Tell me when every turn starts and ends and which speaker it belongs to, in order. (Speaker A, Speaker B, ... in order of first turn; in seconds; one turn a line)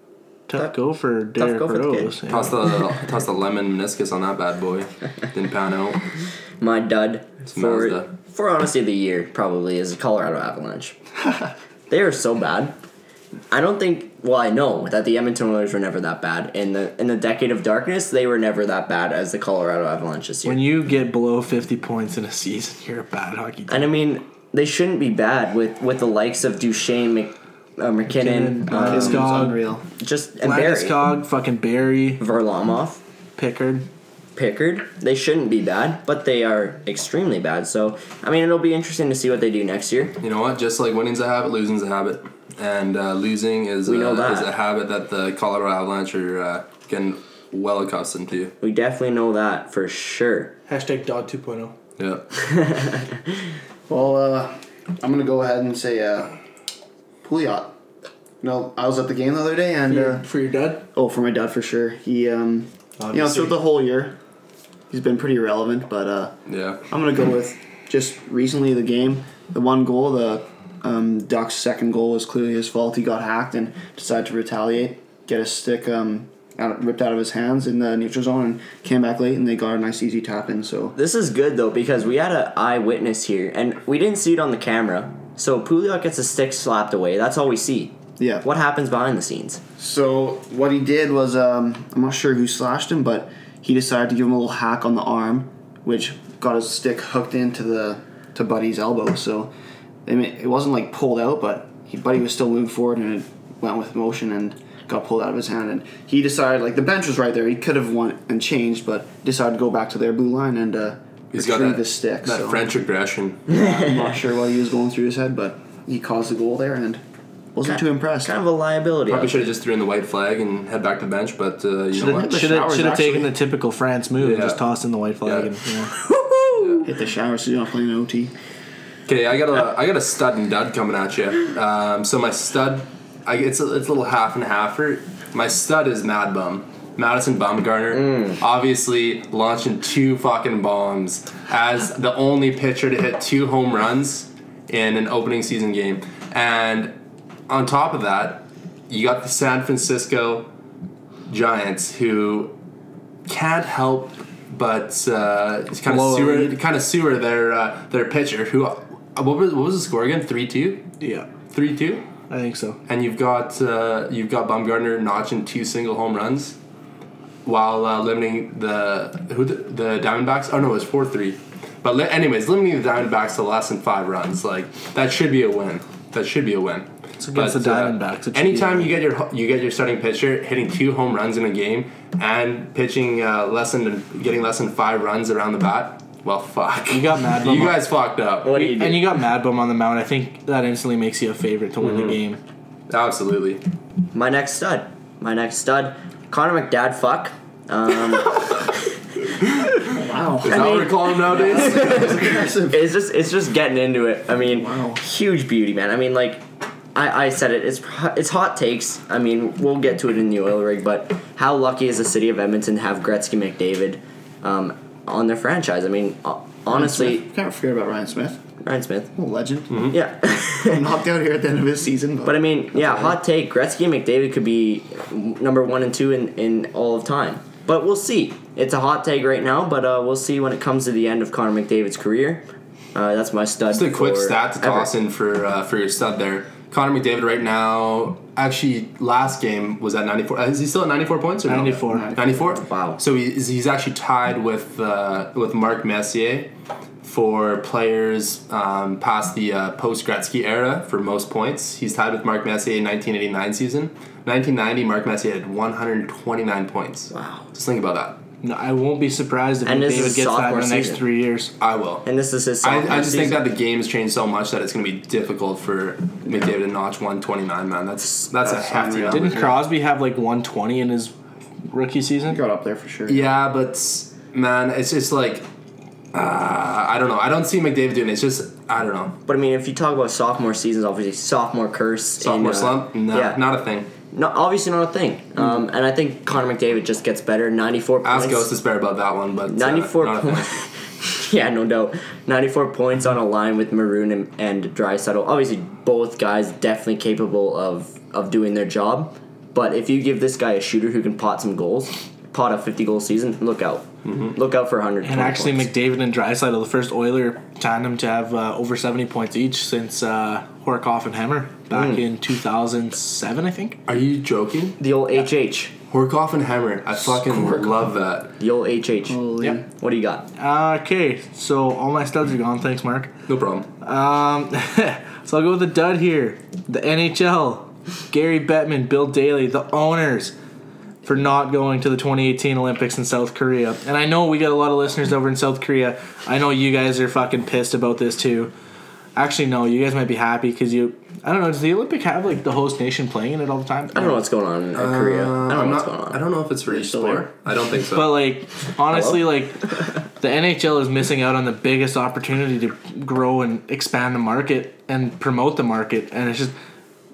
Speaker A: 0.5-2.5
Speaker B: 1.4-2.2
Speaker C: 2.3-6.0
Speaker B: 6.6-10.9
Speaker C: 7.5-8.1
Speaker B: 11.9-12.7
Speaker B: 13.5-20.6
Speaker A: 20.4-23.9
Speaker B: 23.7-29.4
Speaker A: 28.1-29.6
Speaker D: 28.7-29.8
Speaker B: 30.0-31.1
Speaker A: 30.4-32.2
Speaker B: 32.2-33.0
Speaker A: 33.4-33.9
Speaker B: 34.4-40.1
Speaker C: 40.2-48.5
Speaker B: 43.8-44.5
Speaker B: 48.6-50.5
Speaker A: 50.7-51.7
Speaker C: 52.0-52.2
Speaker B: 52.4-53.2
Speaker D: 53.9-56.4
Speaker D: 57.2-57.7
Speaker D: 58.4-60.3
Speaker A: 59.9-60.9
Speaker D: 60.9-64.2
Speaker A: 63.0-63.5
Speaker D: 64.9-66.3
Speaker C: 66.5-66.8
Speaker D: 66.9-80.9
Speaker B: 81.0-89.6
Speaker D: 88.2-88.5
Speaker D: 89.8-99.5
Speaker D: 100.0-112.7
Speaker C: 111.3-113.5
Speaker D: 113.5-117.0
Speaker B: 113.5-113.9
Speaker D: 117.5-118.3
Speaker B: 117.6-119.4
Speaker C: 119.0-122.3
Speaker D: 121.9-123.4
Speaker A: 122.2-125.9
Speaker C: 124.2-124.6
Speaker C: 125.2-125.5
Speaker B: 126.1-126.8
Speaker C: 126.6-126.8
Speaker D: 126.8-128.3
Speaker C: 129.1-146.9
Speaker B: 137.9-138.4
Speaker C: 147.5-150.5
Speaker C: 151.3-152.5
Speaker C: 153.3-160.8
Speaker A: 155.8-156.5
Speaker A: 161.0-161.3
Speaker C: 161.5-162.1
Speaker A: 162.3-162.8
Speaker C: 162.9-166.6
Speaker C: 167.4-188.5
Speaker A: 177.2-179.0
Speaker A: 186.9-187.8
Speaker B: 188.4-189.1
Speaker A: 188.5-192.4
Speaker C: 191.8-192.2
Speaker C: 192.9-193.6
Speaker B: 194.1-198.8
Speaker D: 199.9-202.9
Speaker C: 200.4-202.2
Speaker B: 200.4-217.3
Speaker D: 204.5-205.0
Speaker D: 216.7-218.4
Speaker B: 218.6-219.1
Speaker D: 219.1-219.9
Speaker C: 219.7-219.9
Speaker B: 219.9-220.8
Speaker D: 220.5-223.2
Speaker B: 222.2-234.9
Speaker C: 233.7-246.5
Speaker A: 241.4-242.1
Speaker D: 241.9-242.6
Speaker B: 242.5-243.0
Speaker C: 247.0-258.2
Speaker B: 257.1-257.5
Speaker A: 258.4-261.5
Speaker B: 259.6-261.0
Speaker C: 261.6-262.0
Speaker B: 262.1-263.5
Speaker C: 262.6-269.5
Speaker D: 266.2-266.5
Speaker D: 268.4-269.6
Speaker A: 269.1-271.1
Speaker A: 271.7-272.4
Speaker D: 272.2-273.3
Speaker C: 273.1-275.5
Speaker C: 276.1-279.2
Speaker B: 279.2-283.4
Speaker C: 282.2-283.9
Speaker B: 284.1-288.5
Speaker C: 288.0-290.6
Speaker B: 289.5-305.7
Speaker C: 304.1-304.3
Speaker A: 305.0-313.8
Speaker B: 311.7-312.0
Speaker C: 313.9-314.8
Speaker B: 314.8-315.7
Speaker C: 315.9-318.3
Speaker D: 317.0-317.8
Speaker B: 318.4-320.3
Speaker D: 319.1-319.6
Speaker A: 320.4-323.1
Speaker C: 323.3-323.7
Speaker A: 323.8-330.3
Speaker A: 331.0-338.5
Speaker A: 339.1-344.2
Speaker B: 343.9-346.2
Speaker C: 344.7-348.2
Speaker D: 346.7-347.2
Speaker A: 347.9-356.5
Speaker B: 348.9-349.4